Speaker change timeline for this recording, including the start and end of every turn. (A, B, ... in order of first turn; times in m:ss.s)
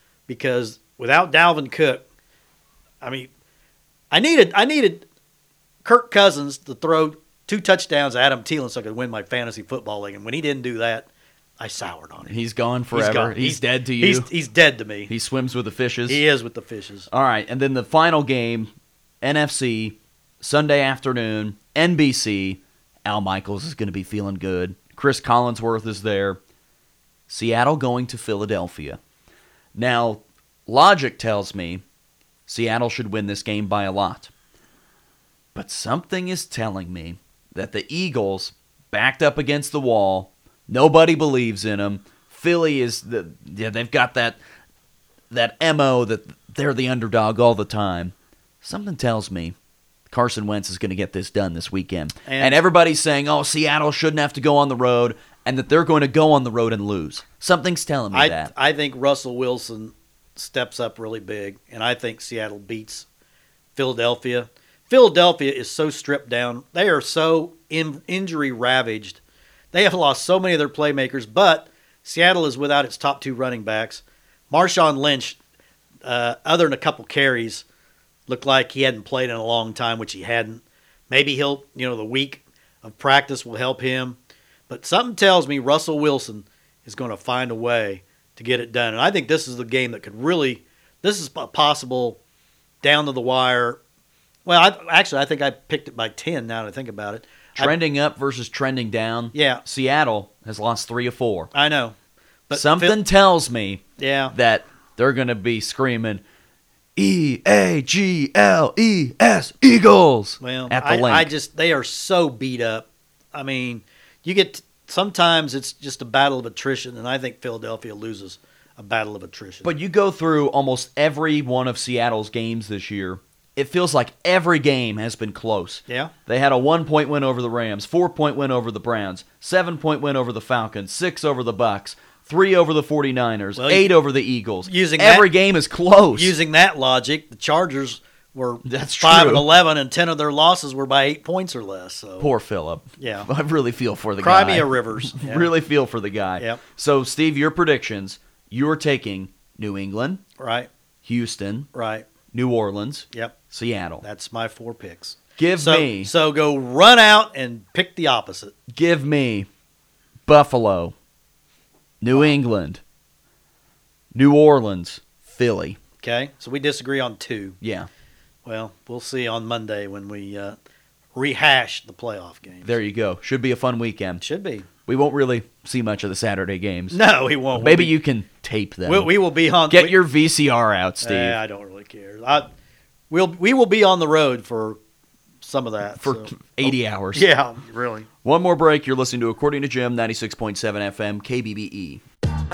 0:00.3-0:02.0 A
0:03.0-0:03.3 A
0:04.1-0:05.1 A
0:05.8-0:11.1 A
0:11.6-0:12.4 A
0:12.2-0:14.3 B
0:12.9-0:15.1 A
0:15.1-0:16.2 B
0:16.1-0:17.1 A
0:17.1-0:18.7 B
0:19.2-0:26.4 B
0:27.3-0:29.0 B
0:29.8-0:31.8 B
0:32.5-0:34.3 B
0:35.6-0:44.4 B
0:45.3-0:49.6 B
0:50.1-0:58.5 B
0:52.3-0:52.6 A
0:58.1-1:03.1 A
1:03.8-1:09.2 A
1:09.7-1:15.4 A
1:16.0-1:17.6 A
1:18.3-1:24.2 A
1:24.7-1:32.2 A
1:32.8-1:33.8 A
1:34.4-1:37.7 A
1:37.6-1:41.5 B
1:39.3-1:39.6 A
1:41.5-1:41.9 A
1:42.5-1:43.0 A
1:42.5-1:46.2 B
1:44.0-1:44.3 A
1:47.0-1:51.3 B
1:50.4-1:59.7 A
1:59.6-2:16.4 B
2:05.9-2:06.1 A
2:13.6-2:13.9 A
2:14.7-2:15.3 A
2:16.1-2:22.3 A
2:18.6-2:19.5 B
2:22.2-2:30.2 B
2:23.0-2:23.3 A
2:24.2-2:25.5 A
2:30.4-2:30.7 A
2:31.0-2:31.7 B
2:31.7-2:32.1 A
2:32.3-2:34.0 B
2:34.0-2:38.6 A
2:35.4-2:36.1 B
2:38.7-2:39.5 B
2:40.3-2:40.9 B
2:42.0-2:42.8 B
2:44.1-2:45.8 B
2:46.0-2:47.6 A
2:47.6-2:47.9 B
2:48.4-2:50.6 A
2:51.1-2:52.7 A
2:52.6-2:54.2 B
2:54.2-2:54.7 A
2:54.9-2:57.0 B
2:56.9-2:57.9 A
2:57.6-2:59.1 B
2:58.9-3:00.0 A
2:59.7-3:01.4 B
3:01.0-3:02.5 A
3:03.1-3:04.8 A
3:05.4-3:08.1 A
3:06.0-3:07.3 B
3:08.2-3:12.0 B